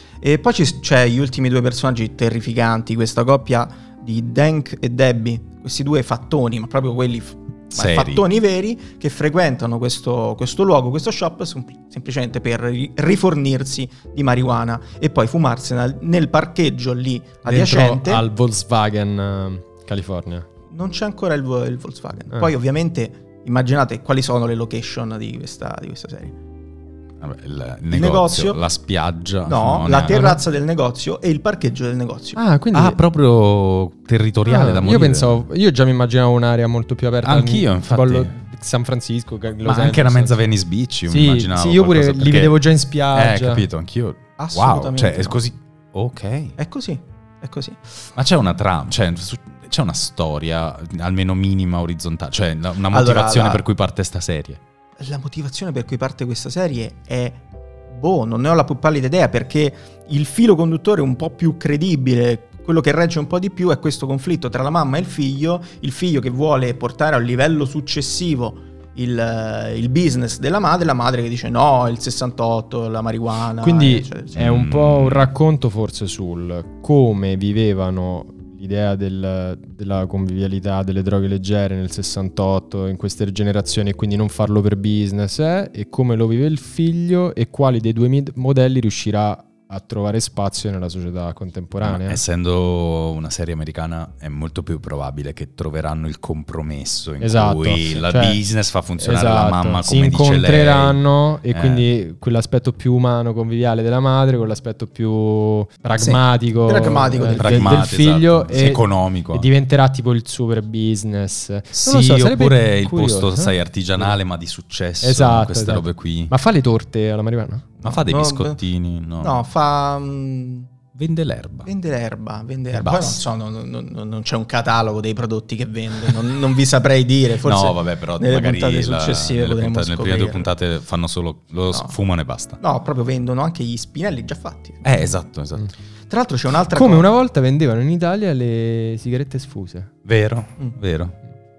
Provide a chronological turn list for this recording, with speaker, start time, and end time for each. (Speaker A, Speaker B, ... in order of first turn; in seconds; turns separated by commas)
Speaker A: 0.2-18.2, Speaker B: 7.7-8.2, Speaker C: 17.4-20.5, Speaker A: 20.7-26.4, Speaker B: 27.2-30.4, Speaker A: 27.9-28.6, Speaker A: 29.5-32.4, Speaker C: 32.4-33.0, Speaker B: 32.7-35.5, Speaker C: 34.5-40.4, Speaker B: 37.2-38.3, Speaker B: 39.6-46.6, Speaker C: 41.1-43.7, Speaker A: 44.4-45.4, Speaker A: 46.6-47.8, Speaker B: 48.2-54.6, Speaker A: 52.9-53.6, Speaker A: 55.0-74.4, Speaker C: 73.6-92.2, Speaker B: 74.3-75.3, Speaker B: 91.8-101.9, Speaker C: 97.2-98.4, Speaker C: 99.0-114.1, Speaker B: 105.9-106.2, Speaker A: 106.7-107.8, Speaker B: 107.2-109.5, Speaker B: 111.7-116.3, Speaker C: 115.0-117.7, Speaker A: 117.8-118.6, Speaker B: 117.8-119.4, Speaker A: 119.2-120.7, Speaker B: 121.0-121.7, Speaker A: 121.7-130.5, Speaker B: 122.7-123.2, Speaker B: 127.4-132.6, Speaker A: 132.6-135.1, Speaker B: 134.8-135.7, Speaker A: 136.1-137.1, Speaker C: 136.7-139.9, Speaker B: 140.1-141.2